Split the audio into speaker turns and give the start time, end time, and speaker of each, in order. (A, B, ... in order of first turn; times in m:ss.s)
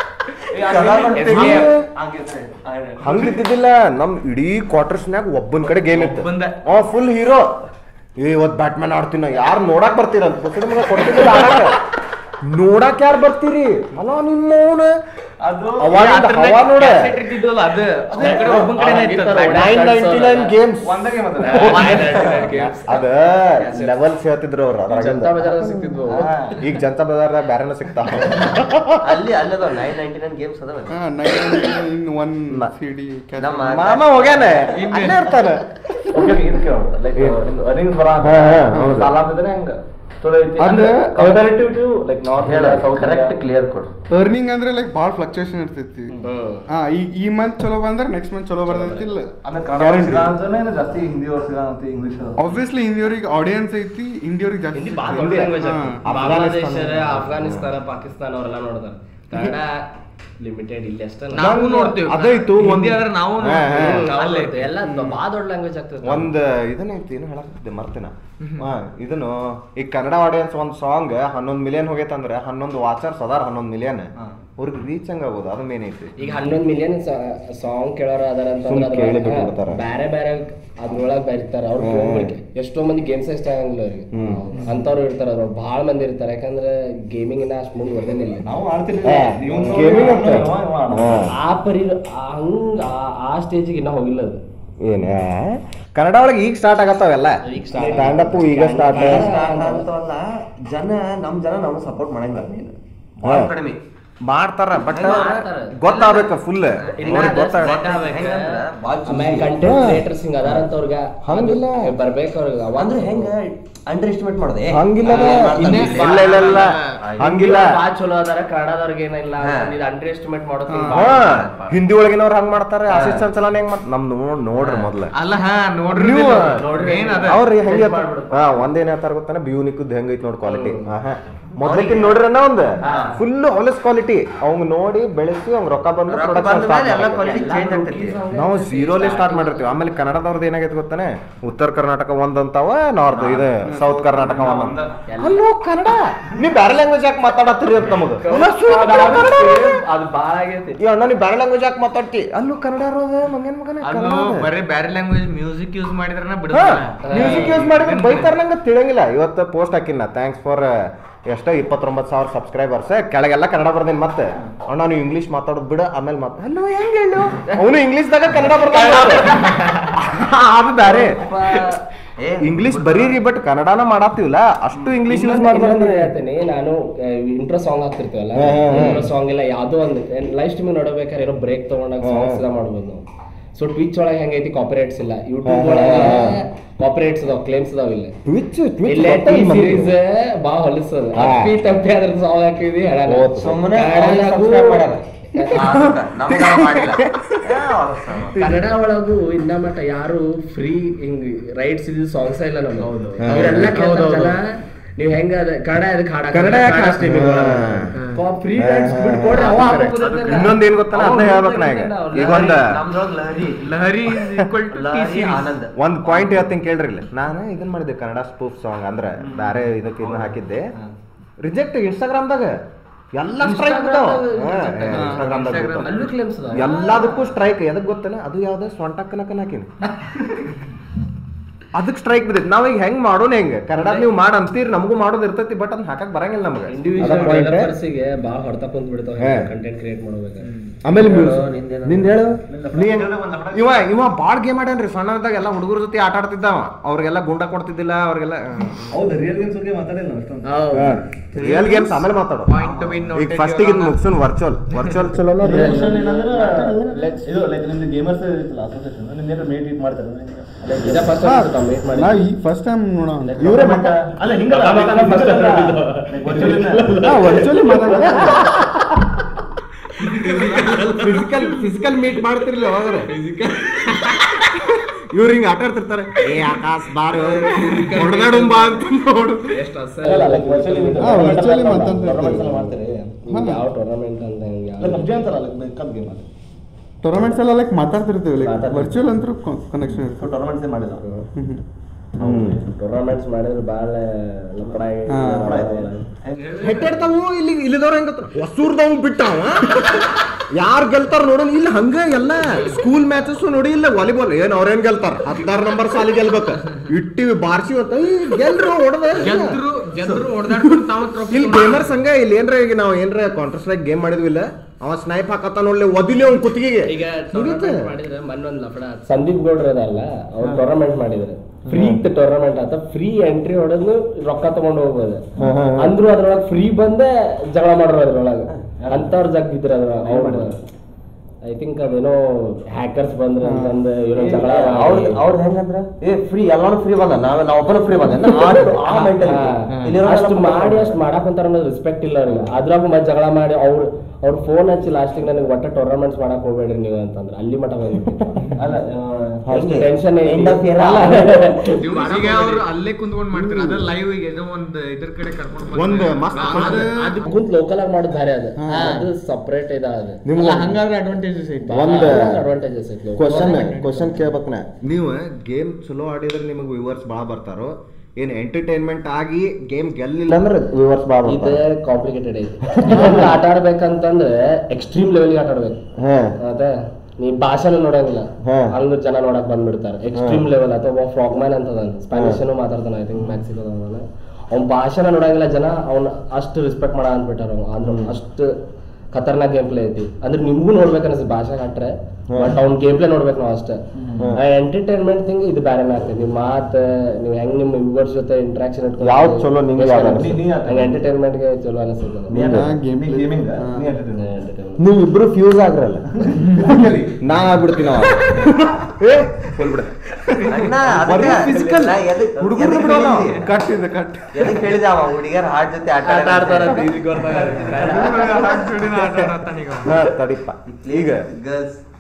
0:00.5-0:03.4 A
0:00.6-0:01.7 B
0:01.2-0:01.9 C
0:03.0-0:07.6 C
0:05.9-0:06.6 D
0:08.2-0:11.8 C
0:12.4-0:14.9 C
0:15.4-0:15.9 A
0:15.8-0:17.2 C
0:15.9-0:19.7 D
0:18.1-0:18.7 A
0:18.2-0:20.6 E
0:19.4-0:20.9 C
0:20.8-0:22.4 A
0:21.4-0:23.0 E
0:21.4-0:26.0 C
0:21.6-0:22.5 D
0:23.7-0:23.9 A
0:24.9-0:26.5 E
0:26.1-0:26.6 A
0:26.6-0:29.0 C
0:29.0-0:31.0 B
0:30.9-0:33.7 F
0:33.4-0:34.8 B
0:33.7-0:36.5 C
0:34.7-0:35.4 D
0:36.2-0:39.7 A
0:37.1-0:37.4 C
0:38.2-0:39.1 C
0:38.7-0:39.1 F
0:40.2-0:43.4 E
0:40.6-0:41.4 C
0:42.3-0:43.3 A
0:42.4-0:43.9 B
0:44.1-0:46.2 F
0:46.2-0:46.7 E
0:46.7-0:50.3 F
0:48.7-0:49.1 E
0:49.4-0:52.4 A
0:52.4-0:56.0 F
0:54.7-1:01.8 E
0:55.1-0:57.7 C
1:01.3-1:04.7 D
1:01.4-1:04.1 C
1:03.7-1:06.3 E
1:04.8-1:05.2 C
1:06.0-1:16.1 C
1:08.4-1:08.7 D
1:16.2-1:28.5 E
1:18.6-1:19.8 C
1:21.8-1:22.4 C
1:24.1-1:24.4 C
1:28.4-1:31.3 A
1:29.0-1:31.3 C
1:29.4-1:30.4 E
1:31.3-1:34.4 E
1:34.8-1:39.4 C
1:37.4-1:39.9 E
1:37.7-1:38.3 A
1:38.9-1:43.8 B
1:43.2-1:43.5 C
1:44.3-1:47.8 C
1:44.9-1:49.6 B
1:45.0-1:45.8 E
1:47.0-1:53.3 E
1:49.6-1:50.6 C
1:51.2-1:51.9 C
1:52.8-1:57.4 B
1:54.7-1:57.8 C
1:55.1-1:57.0 D
1:55.1-1:55.4 E
1:57.2-2:01.8 E
1:59.4-1:59.7 B
2:00.7-2:01.1 F
2:00.9-2:05.1 C
2:02.9-2:03.2 E
2:04.6-2:07.4 D
2:05.9-2:06.7 C
2:06.5-2:08.7 E
2:07.2-2:17.5 C
2:10.4-2:10.9 E
2:11.6-2:12.2 B
2:12.8-2:13.2 E
2:16.1-2:18.2 B
2:17.2-2:19.8 E
2:18.3-2:29.8 C
2:23.1-2:25.0 A
2:23.6-2:24.0 F
2:25.1-2:25.4 E
2:28.2-2:30.8 E
2:30.8-2:34.5 C
2:33.8-2:38.3 D
2:36.5-2:49.4 C
2:37.0-2:37.6 E
2:48.7-2:50.0 E
2:49.9-2:51.2 C
2:50.9-2:51.8 E
2:52.2-2:53.1 B
2:52.4-2:56.1 C
2:55.1-3:03.0 E
2:58.4-2:59.1 C
3:02.0-3:02.4 C
3:03.6-3:08.2 E
3:05.4-3:06.4 C
3:08.2-3:09.9 C
3:08.9-3:15.6 E
3:11.1-3:11.6 C
3:13.1-3:13.6 C
3:13.4-3:18.4 B
3:15.5-3:18.7 C
3:18.4-3:32.6 E
3:23.1-3:24.4 D
3:23.2-3:23.8 C
3:26.3-3:27.9 C
3:28.6-3:32.8 C
3:30.0-3:30.5 D
3:32.1-3:33.6 B
3:33.6-3:35.5 D
3:34.2-3:34.5 C
3:34.7-3:35.8 B
3:35.8-3:40.7 C
3:39.2-3:40.9 A
3:41.4-3:42.6 C
3:43.2-3:45.9 C
3:43.4-3:47.2 E
3:45.0-3:45.2 F
3:45.0-3:47.2 D
3:46.5-3:49.9 C
3:51.7-3:57.7 C
3:56.7-4:00.5 E
3:59.2-3:59.5 C
4:00.8-4:08.9 C
4:00.9-4:02.2 B
4:02.5-4:03.9 A
4:08.9-4:10.9 A
4:10.4-4:14.0 D
4:10.7-4:12.6 C
4:12.6-4:13.0 A
4:13.1-4:15.9 C
4:15.4-4:21.2 A
4:15.4-4:17.3 E
4:20.8-4:22.3 E
4:21.2-4:23.9 F
4:23.2-4:28.6 E
4:23.4-4:27.0 A
4:27.0-4:29.0 C
4:27.7-4:28.3 F
4:30.0-4:31.3 E
4:30.1-4:30.9 A
4:30.7-4:31.1 D
4:31.0-4:33.1 C
4:33.1-4:34.3 E
4:33.9-4:34.2 D
4:34.5-4:39.5 C
4:37.2-4:38.8 E
4:37.3-4:38.1 D
4:39.5-4:42.7 E
4:40.0-4:43.2 A
4:41.0-4:42.6 F
4:43.2-4:45.1 E
4:43.3-4:43.7 F
4:44.8-4:46.3 A
4:47.0-4:50.2 F
4:48.4-4:49.1 E
4:49.8-4:51.1 A
4:51.4-4:51.6 F
4:52.2-4:52.7 A
4:52.2-4:52.6 C
4:52.6-4:55.9 E
4:55.1-4:55.5 F
4:55.4-4:56.8 A
4:56.4-4:57.0 D
4:56.6-5:09.6 C
5:09.2-5:12.0 D
5:10.0-5:10.3 A
5:10.5-5:17.9 C
5:16.8-5:25.2 E
5:21.7-5:22.0 C
5:25.4-5:25.9 C
5:25.8-5:30.6 E
5:28.8-5:29.2 A
5:30.0-5:30.5 A
5:31.4-5:35.2 E
5:33.4-5:33.8 F
5:34.2-5:41.0 B
5:38.4-5:38.7 C
5:38.9-5:48.3 E
5:48.6-5:49.4 A
5:49.5-5:51.6 B
5:49.5-5:52.6 E
5:51.8-5:57.1 D
5:55.7-5:56.9 C
5:56.4-6:00.2 E
5:56.6-5:57.2 F
5:58.6-5:59.0 F
5:58.7-5:59.1 D
6:00.2-6:00.8 C
6:00.4-6:02.2 D
6:01.7-6:04.3 E
6:01.7-6:02.4 C
6:03.2-6:11.6 C
6:11.2-6:15.8 E
6:12.7-6:13.3 C
6:16.0-6:16.3 C
6:16.4-6:28.5 E
6:18.4-6:18.7 C
6:20.1-6:20.4 C
6:22.1-6:22.4 C
6:27.8-6:28.1 C
6:29.1-6:33.8 E
6:32.3-6:32.6 C
6:34.0-6:34.4 A
6:34.3-6:42.4 E
6:39.0-6:40.4 C
6:40.0-6:41.0 A
6:42.3-6:42.7 C
6:42.3-6:44.3 A
6:42.5-6:43.9 F
6:44.2-6:44.9 E
6:44.8-6:46.4 C
6:46.2-6:47.2 A
6:47.2-6:49.9 C
6:50.5-6:53.5 B
6:50.8-6:53.8 C
6:52.6-6:53.2 A
6:53.5-6:54.6 F
6:54.4-6:57.0 B
6:56.0-6:58.6 E
6:57.3-7:00.0 D
6:57.8-6:58.7 F
6:57.9-6:58.3 C
6:59.8-7:01.3 C
7:00.7-7:01.8 B